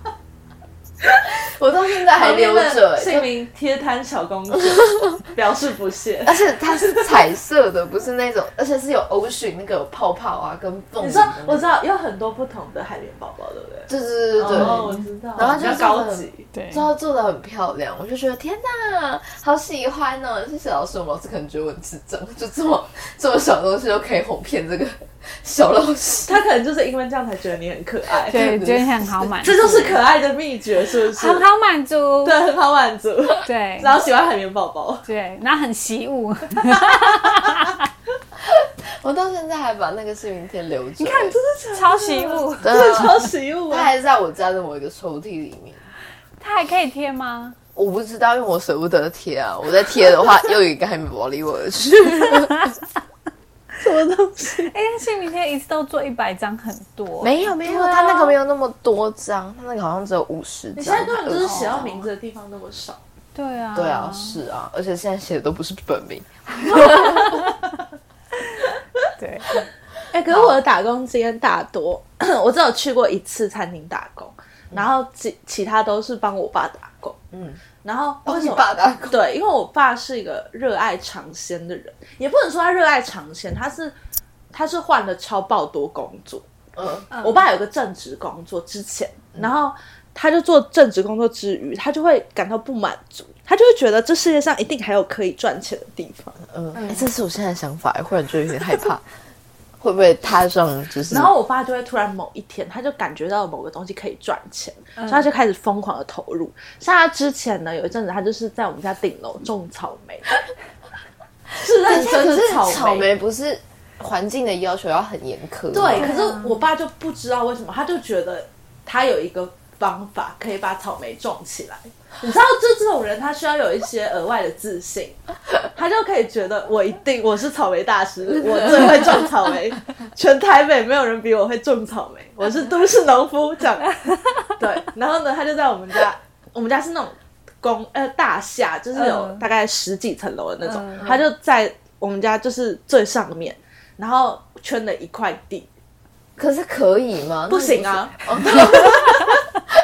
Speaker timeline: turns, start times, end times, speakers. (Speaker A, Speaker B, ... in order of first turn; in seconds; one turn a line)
Speaker A: 1.3-3.3
Speaker B: 2.1-7.2
Speaker A: 6.3-11.7
Speaker B: 11.0-16.5
Speaker A: 13.9-26.4
Speaker C: 16.5-16.9
Speaker B: 26.3-28.5
Speaker C: 28.3-30.0
Speaker A: 28.3-28.9
Speaker B: 29.4-31.4
Speaker C: 31.1-32.4
Speaker B: 32.2-35.0
Speaker C: 33.5-34.0
Speaker C: 35.1-37.8
Speaker A: 38.4-41.4
Speaker C: 41.0-42.7
Speaker B: 41.4-43.9
Speaker A: 42.6-45.9
Speaker C: 46.4-47.6
Speaker A: 47.8-52.7
Speaker B: 53.8-54.7
Speaker C: 54.6-57.6
Speaker A: 57.2-61.9
Speaker B: 57.7-58.3
Speaker B: 60.8-63.0
Speaker C: 61.3-62.0
Speaker C: 63.4-64.4
Speaker A: 63.8-67.5
Speaker C: 66.8-67.4
Speaker C: 69.2-69.6
Speaker B: 70.1-77.2
Speaker A: 70.3-70.6
Speaker A: 77.3-77.6
Speaker B: 77.8-83.9
Speaker A: 78.2-79.2
Speaker B: 84.5-86.5
Speaker A: 86.8-87.0
Speaker B: 87.0-97.0
Speaker A: 96.5-99.1
Speaker A: 99.8-101.3
Speaker B: 101.1-110.3
Speaker B: 111.5-113.1
Speaker A: 111.8-116.1
Speaker B: 115.7-125.2
Speaker C: 116.0-116.6
Speaker B: 125.7-133.9
Speaker B: 134.6-145.7
Speaker C: 139.0-139.4
Speaker C: 140.7-141.0
Speaker A: 146.4-149.1
Speaker B: 147.5-149.3